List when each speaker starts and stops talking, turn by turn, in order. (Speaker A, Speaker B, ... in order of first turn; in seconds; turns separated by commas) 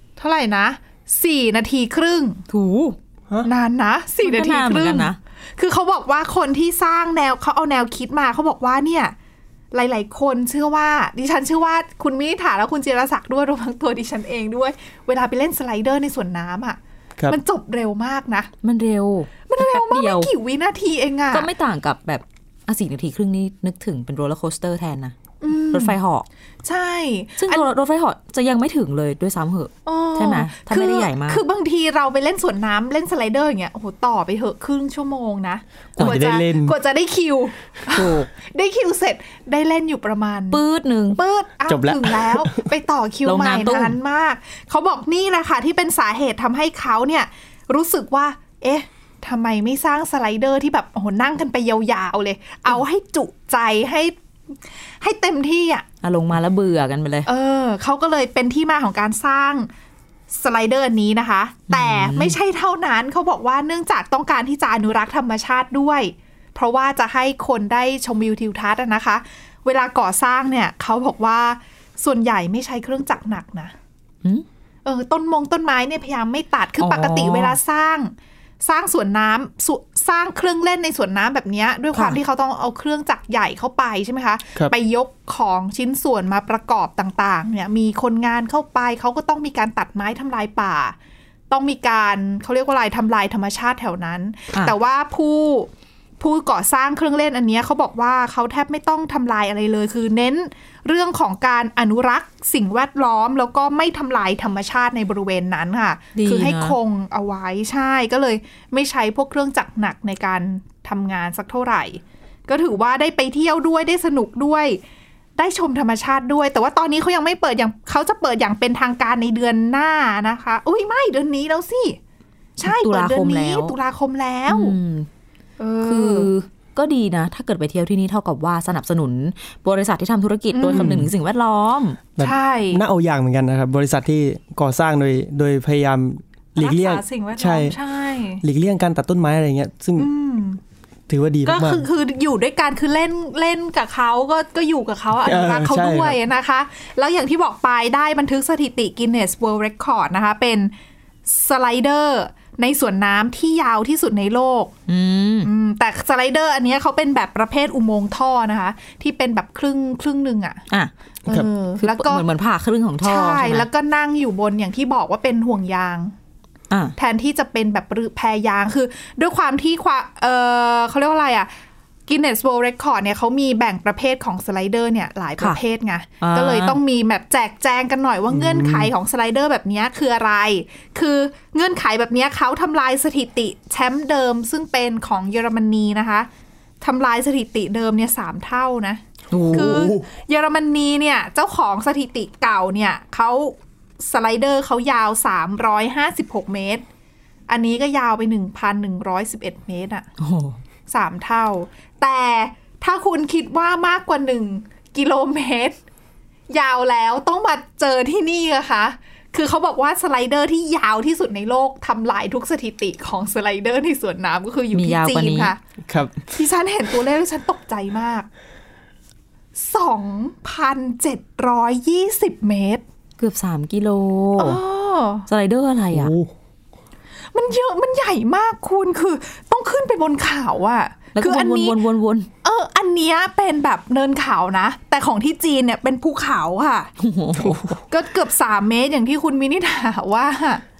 Speaker A: 0.2-2.4, Speaker B: 2.5-3.0, Speaker A: 3.4-9.1, Speaker B: 4.2-5.2, Speaker A: 9.7-18.5, Speaker B: 18.6-20.3, Speaker A: 19.5-21.5, Speaker B: 21.3-25.2, Speaker A: 25.4-26.0, Speaker B: 25.7-26.3, Speaker A: 26.6-27.7, Speaker B: 27.4-31.4, Speaker A: 29.9-40.6, Speaker C: 36.0-36.8, Speaker B: 37.9-38.3, Speaker B: 40.5-41.2, Speaker A: 41.1-54.1, Speaker C: 41.7-42.7, Speaker B: 43.3-44.0, Speaker A: 55.0-55.9, Speaker B: 56.0-57.3, Speaker A: 57.3-59.7, Speaker A: 60.3-73.7, Speaker B: 61.7-62.4, Speaker A: 74.8-91.0, Speaker B: 76.8-77.6, Speaker B: 81.9-82.2, Speaker A: 91.5-114.8, Speaker B: 106.2-106.8, Speaker A: 115.4-122.0, Speaker A: 122.6-124.8, Speaker B: 122.6-123.8, Speaker B: 124.5-125.1, Speaker A: 125.6-126.3, Speaker B: 125.8-132.0, Speaker A: 130.5-131.0, Speaker C: 130.7-131.1, Speaker C: 132.2-137.8, Speaker A: 132.2-132.8, Speaker A: 136.6-138.4, Speaker C: 138.4-140.1, Speaker A: 140.0-140.6, Speaker C: 141.1-141.9, Speaker A: 141.5-150.7, Speaker C: 145.2-146.2, Speaker A: 151.3-154.7, Speaker B: 154.9-155.5, Speaker A: 155.4-160.6, Speaker A: 161.2-162.2, Speaker B: 161.8-163.7, Speaker A: 163.0-166.1, Speaker B: 166.7-167.0, Speaker A: 167.0-171.5, Speaker A: 172.1-186.3, Speaker B: 176.2-176.8, Speaker C: 178.3-178.9, Speaker A: 186.8-196.8, Speaker B: 189.3-190.0, Speaker C: 189.4-189.8, Speaker A: 197.5-200.1, Speaker B: 200.2-200.6, Speaker A: 200.9-205.8, Speaker A: 206.5-215.6, Speaker B: 214.7-215.5, Speaker C: 215.9-216.2, Speaker A: 216.3-218.3, Speaker A: 219.6-222.8, Speaker B: 223.2-224.6, Speaker A: 224.4-225.3, Speaker B: 225.3-226.1, Speaker C: 225.9-226.3, Speaker A: 227.3-231.8, Speaker B: 231.2-232.3, Speaker A: 232.4-236.9, Speaker B: 237.0-237.7, Speaker C: 237.4-237.8, Speaker A: 237.9-240.6